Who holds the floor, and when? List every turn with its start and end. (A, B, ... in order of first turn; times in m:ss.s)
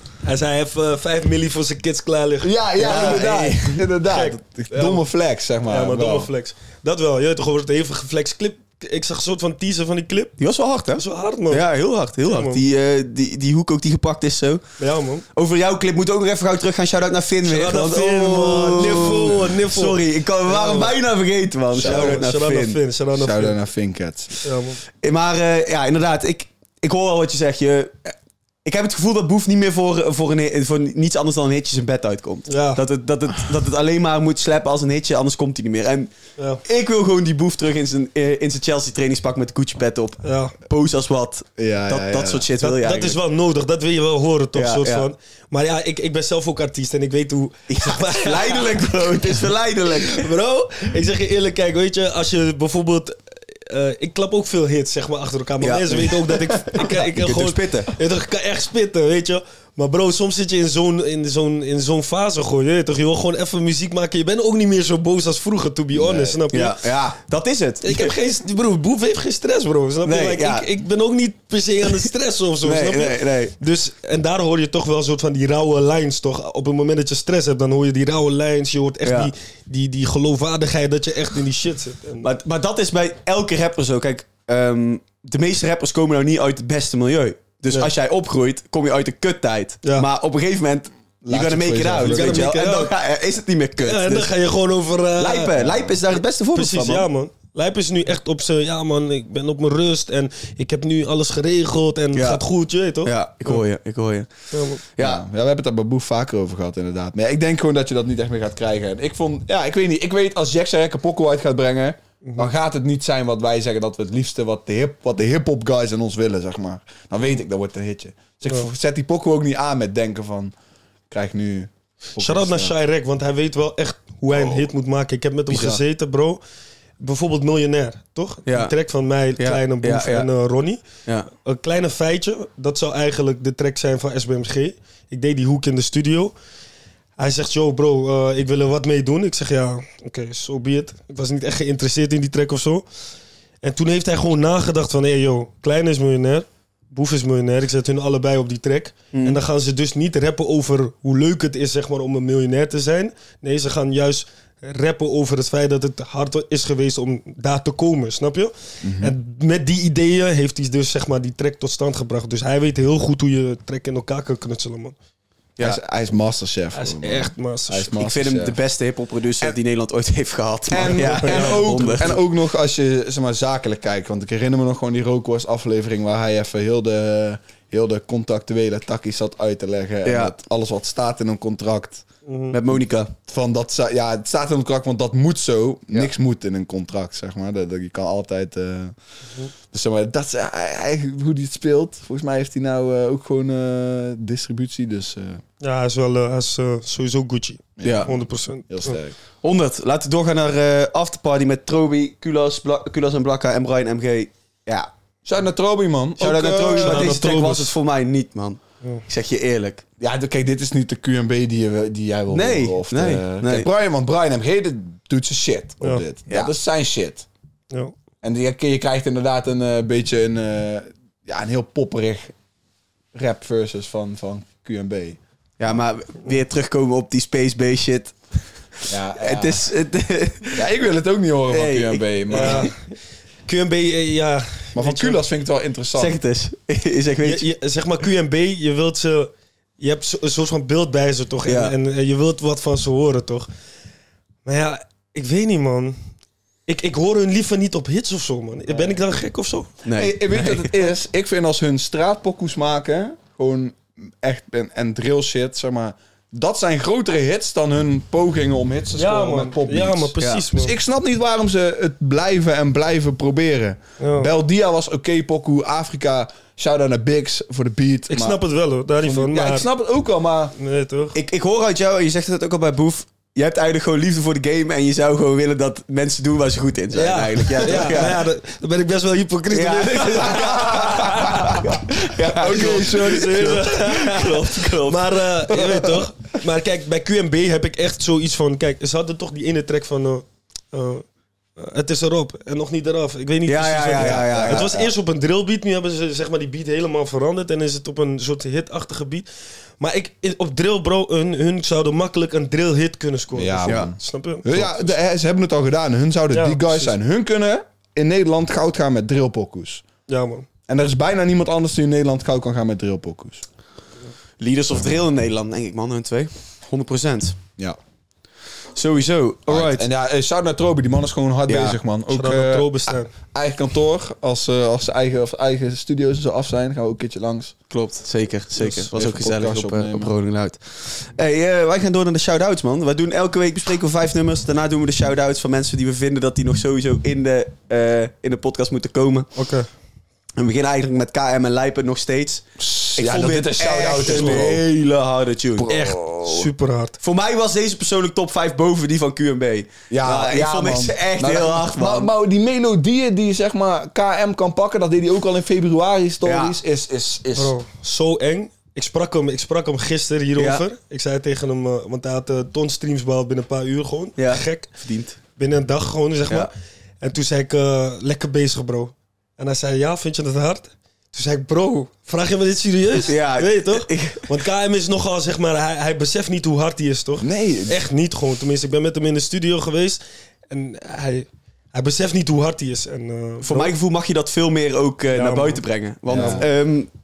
0:00.2-0:05.0 A
0:02.4-0:06.3 B
0:02.8-0:03.8 C
0:05.7-0:10.4 A
0:10.4-0:14.6 C
0:11.0-0:11.6 A
0:12.2-0:12.6 A
0:14.8-0:15.2 A
0:15.3-0:22.8 C
0:17.4-0:20.9 A
0:21.7-0:22.2 B
0:21.8-0:23.6 A
0:23.2-0:24.4 B
0:24.4-0:24.8 A
0:25.0-0:28.1 C
0:28.6-0:36.1 C
0:32.5-0:32.8 A
0:36.6-0:43.2 C
0:40.2-0:40.5 A
0:41.6-0:42.4 B
0:42.6-0:49.4 A
0:44.6-0:45.1 C
0:47.7-0:50.3 C
0:50.0-1:06.8 A
0:55.6-0:57.9 C
1:05.9-1:06.4 B
1:06.5-1:08.2 C
1:07.8-1:22.3 A
1:10.0-1:10.7 C
1:12.6-1:13.5 C
1:19.0-1:19.3 C
1:22.2-1:34.3 C
1:31.2-1:32.5 B
1:32.0-1:32.9 A
1:33.8-1:35.8 A
1:35.2-1:37.1 C
1:36.5-1:43.6 A
1:42.2-1:42.4 C
1:43.0-1:44.3 C
1:44.5-1:44.8 A
1:44.9-1:45.2 C
1:45.0-2:00.5 B
1:52.2-1:52.5 A
2:01.1-2:02.7 B
2:02.2-2:06.4 A
2:04.3-2:04.7 B
2:05.5-2:05.8 C
2:07.0-2:16.3 A
2:08.5-2:08.7 C
2:09.4-2:10.3 C
2:17.2-2:22.8 A
2:23.6-2:45.0 A
2:29.1-2:29.4 C
2:38.8-2:39.1 B
2:45.6-2:48.6 B
2:46.8-2:47.9 A
2:47.9-2:52.2 C
2:50.7-3:02.0 B
2:50.9-2:51.7 A
3:00.0-3:00.3 C
3:02.3-3:02.6 A
3:02.5-3:03.1 C
3:03.2-3:09.0 B
3:09.7-3:15.4 B
3:15.6-3:19.0 A
3:17.8-3:19.2 B
3:17.8-3:18.1 C
3:19.4-3:24.9 C
3:25.3-3:27.2 B
3:26.2-3:29.8 C
3:26.4-3:27.7 A
3:30.0-3:37.3 B
3:32.3-3:33.7 C
3:38.2-3:42.4 B
3:43.1-3:45.8 B
3:45.6-3:48.2 C
3:48.8-3:50.7 C
3:48.9-3:49.6 B
3:50.5-3:52.7 B
3:51.5-3:52.7 C
3:52.3-3:52.7 A
3:53.5-3:55.2 A
3:54.8-3:56.2 B
3:56.0-3:57.5 C
3:57.2-4:03.5 A
4:01.5-4:01.7 C
4:04.4-4:06.0 A
4:06.7-4:09.7 A
4:09.8-4:10.7 C
4:09.9-4:28.4 B
4:19.0-4:20.8 A
4:20.2-4:20.5 C
4:24.0-4:24.3 A
4:28.1-4:29.7 A
4:29.0-4:30.5 B
4:30.6-4:31.2 A
4:31.2-4:38.2 C
4:36.9-4:41.6 A
4:39.5-4:45.7 C
4:40.4-4:43.6 B
4:42.4-4:51.0 A
4:51.6-4:59.3 A
4:53.5-4:54.7 C
4:54.0-4:54.9 B
4:59.8-5:04.9 A
5:03.3-5:09.8 B
5:06.3-5:06.9 A
5:10.1-5:10.5 A
5:10.7-5:13.4 B
5:14.4-5:17.4 C
5:18.8-5:19.9 C
5:19.5-5:27.6 B
5:21.5-5:21.8 C
5:22.1-5:23.1 A
5:27.7-5:39.3 C
5:28.6-5:30.1 B
5:39.4-5:39.7 A
5:40.4-5:45.7 C
5:42.6-5:44.7 B
5:44.1-5:44.4 A
5:45.6-5:46.5 B
5:45.7-5:47.0 A
5:47.0-5:52.1 C
5:49.9-5:57.6 B
5:56.2-5:56.6 C
5:57.4-6:04.7 A
6:00.4-6:00.6 C
6:04.2-6:05.2 C
6:05.4-6:23.7 A
6:13.0-6:14.3 C
6:17.2-6:17.8 B
6:23.4-6:26.9 C
6:25.1-6:25.6 A
6:26.1-6:26.5 B
6:26.2-6:26.4 A